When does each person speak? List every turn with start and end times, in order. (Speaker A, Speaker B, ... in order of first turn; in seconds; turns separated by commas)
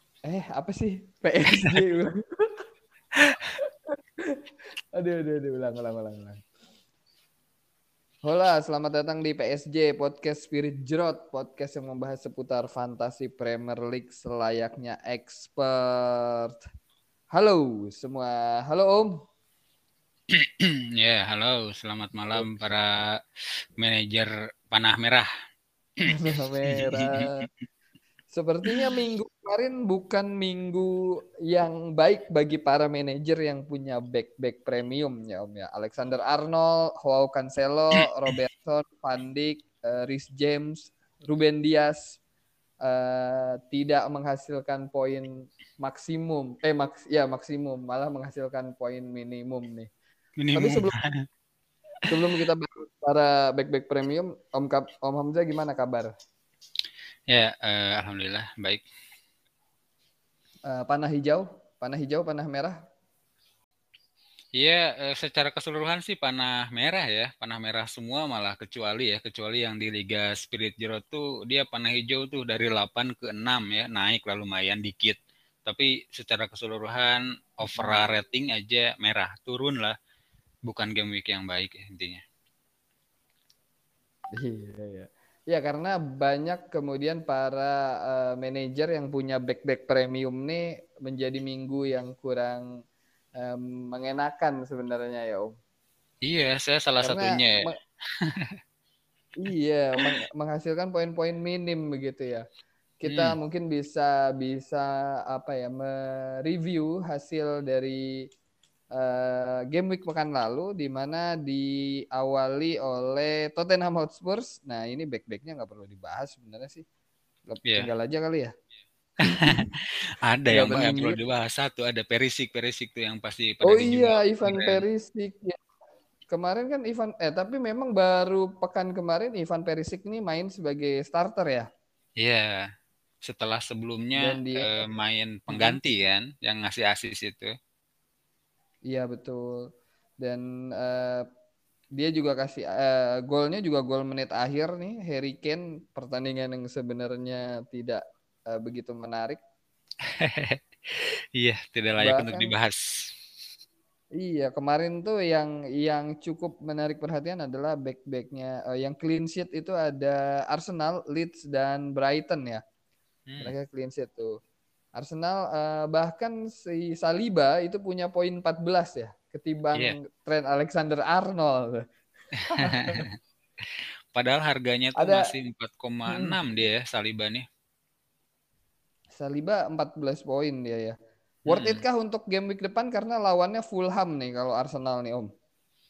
Speaker A: 0.2-2.6, Speaker A: 4.9-6.4, Speaker A: 8.2-16.6, Speaker A: 17.3-19.2, Speaker B: 20.3-25.3, Speaker A: 26.1-27.5, Speaker B: 26.7-27.5, Speaker A: 28.3-30.9, Speaker B: 28.6-29.0, Speaker A: 31.5-42.2, Speaker A: 42.8-49.9, Speaker B: 50.4-51.1, Speaker A: 50.5-50.9, Speaker A: 52.1-56.1, Speaker B: 57.3-58.8, Speaker A: 60.7-62.8, Speaker B: 64.5-80.0, Speaker A: 77.7-78.1, Speaker B: 80.7-82.2, Speaker A: 84.3-92.7, Speaker A: 93.4-95.6, Speaker B: 96.2-97.6, Speaker A: 97.0-97.8, Speaker B: 98.2-98.5, Speaker A: 99.4-102.4, Speaker A: 103.0-108.2, Speaker B: 103.1-103.3, Speaker A: 108.9-116.8, Speaker A: 117.5-118.5, Speaker B: 119.2-124.8, Speaker A: 119.3-119.6, Speaker A: 120.5-121.2, Speaker A: 123.6-125.6, Speaker A: 126.3-131.7, Speaker B: 132.2-132.7, Speaker B: 133.2-137.5, Speaker A: 134.2-134.7, Speaker A: 135.5-135.8, Speaker A: 138.9-139.7, Speaker A: 140.2-141.2, Speaker A: 141.9-149.4, Speaker B: 150.0-153.1, Speaker A: 152.0-152.5, Speaker A: 154.1-162.6, Speaker B: 163.3-163.5, Speaker A: 163.4-164.3, Speaker A: 164.9-171.8, Speaker B: 172.4-173.1, Speaker A: 172.5-173.1, Speaker B: 173.7-177.4, Speaker A: 174.9-175.3, Speaker A: 176.1-176.4, Speaker A: 179.1-185.3, Speaker B: 181.5-181.8